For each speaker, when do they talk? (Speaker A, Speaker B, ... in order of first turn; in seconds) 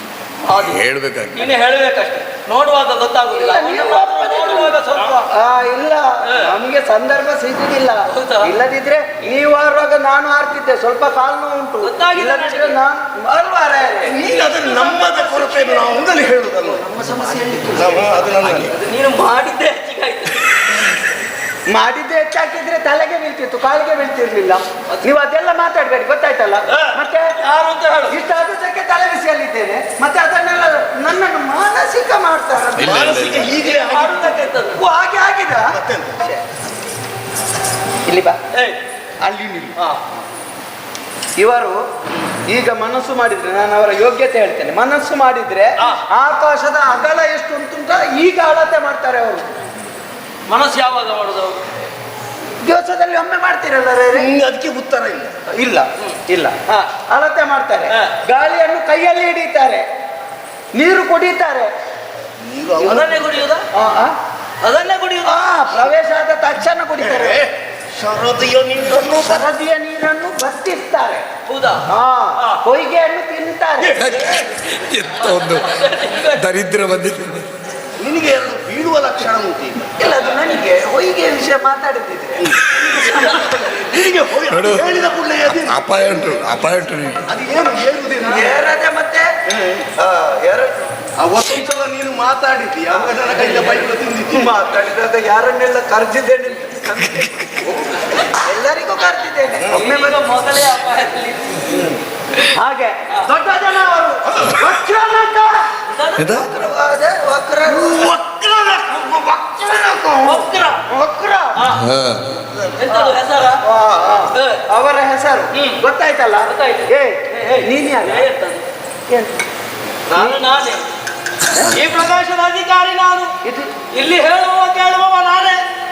Speaker A: 0.5-0.8, 1.3-5.3, 6.2-6.5, 8.1-8.5, 11.8-12.8, 14.3-16.0, 16.9-20.7, 26.7-28.1, 33.5-34.8, 38.5-38.8, 50.5-51.6, 62.8-63.6, 64.6-65.3, 71.5-71.8, 75.2-76.5, 99.7-101.7, 105.9-106.4, 110.2-110.8, 111.5-111.9, 112.8-113.6, 114.3-114.6, 115.5-115.8, 116.4-118.6, 120.1-120.8, 121.6-123.3, 123.9-125.6
Speaker B: 0.6-1.5, 32.8-33.5, 74.0-75.8, 76.3-77.5, 84.5-84.9, 85.5-87.2, 106.2-106.5, 111.8-112.4
Speaker C: 3.3-4.8, 5.3-14.2, 16.9-18.0, 21.7-27.3, 28.1-33.2, 34.7-36.4, 38.0-38.4, 39.2-39.8, 41.4-41.8, 42.5-49.5, 52.6-54.3, 55.5-59.8, 60.7-61.7, 63.7-64.2, 65.2-67.4, 69.2-71.2, 71.9-74.0, 80.0-82.5, 88.2-89.3, 90.0-90.8, 94.3-97.6, 98.3-100.2, 101.6-105.7, 106.2-108.1, 110.9-111.6, 112.9-118.3, 119.1-119.4, 120.1-120.4, 123.4-123.7
Speaker D: 14.1-16.8, 17.8-18.7, 32.8-34.5, 35.7-36.2, 54.1-55.3, 62.4-63.5, 67.0-69.5, 73.8-74.5, 78.0-79.9, 82.4-86.3, 87.3-88.6, 89.5-89.8, 91.2-94.6, 97.6-98.0, 107.7-110.4